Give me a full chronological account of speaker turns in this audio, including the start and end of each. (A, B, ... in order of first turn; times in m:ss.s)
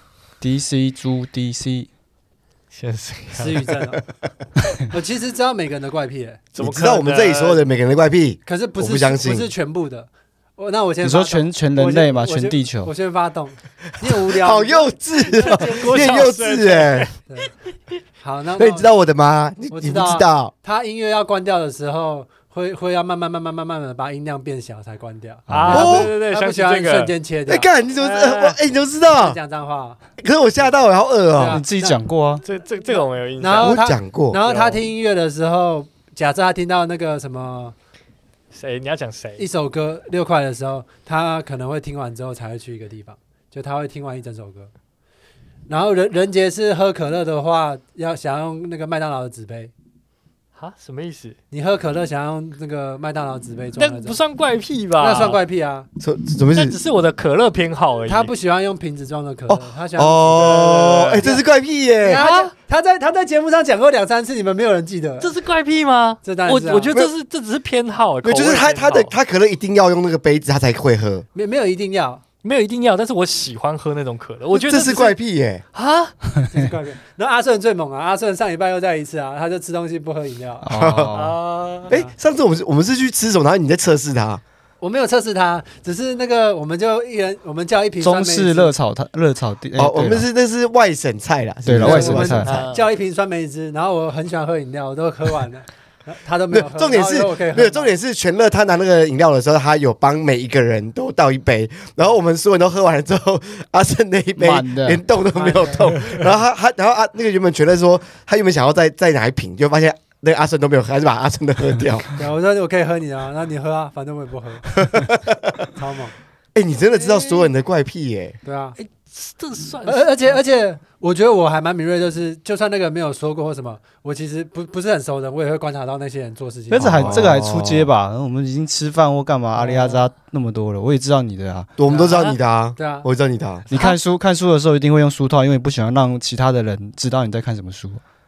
0:00.4-0:01.9 A
0:02.7-0:03.9 B
0:03.3-0:04.0 C
0:04.9-0:06.4 C
0:06.5-0:07.7 B
0:06.6-0:09.5 D
0:08.4-0:16.2 C
0:11.0-0:12.9 A
0:14.0-0:17.1 D
0:15.4-0:17.2 B
0:18.2-0:18.9 C
0:18.6-0:20.5 D
0:19.7-0:27.7 C
0:25.5-0:25.9 A
0:25.5-0:27.1 B
0:25.7-0:26.1 D
0:27.5-0:29.4 D
0:28.0-0:28.6 B
0:29.1-0:30.0 C
0:30.2-0:31.6 D
0:31.3-0:32.0 C
0:31.4-0:32.4 A
0:32.4-0:33.8 B
0:32.8-0:37.7 C
0:33.6-0:34.4 D
0:34.4-0:34.8 B
0:38.5-0:39.4 B
0:39.4-0:44.7 C
0:45.7-0:49.7 C
0:50.6-0:51.4 B
0:51.5-0:54.2 C
0:53.8-0:55.4 B
0:55.0-0:55.9 C
0:56.0-0:56.8 D
0:56.5-0:58.3 B
0:58.1-1:01.4 C
0:59.5-1:02.2 D
1:00.4-1:01.2 B
1:02.0-1:05.3 C
1:02.1-1:02.5 B
1:05.2-1:09.1 B
1:06.2-1:06.9 C
1:08.2-1:11.2 D
1:11.3-1:12.2 C
1:12.4-1:15.2 B
1:14.5-1:15.6 D
1:15.7-1:16.1 B
1:16.5-1:20.7 C
1:20.6-1:21.4 A
1:20.7-1:21.1 D
1:21.1-1:21.9 B
1:21.9-1:24.4 D
1:24.8-1:28.7 C
1:28.0-1:30.3 A
1:29.8-1:32.6 D
1:31.6-1:32.6 A
1:31.8-1:38.0 C
1:32.4-1:32.9 B
1:36.5-1:52.2 D
1:44.4-1:45.0 A
1:45.3-1:45.9 C
1:52.2-1:54.7 C
1:54.8-1:55.7 D
1:55.7-1:56.1 C
1:56.5-1:58.4 D
1:58.4-1:58.8 C
1:58.8-2:00.4 B
1:59.8-2:07.3 C
2:06.7-2:11.7 A
2:06.8-2:07.9 D
2:09.6-2:10.1 C
2:11.8-2:13.7 D
2:11.8-2:13.1 C
2:12.1-2:12.4 B
2:13.7-2:18.0 A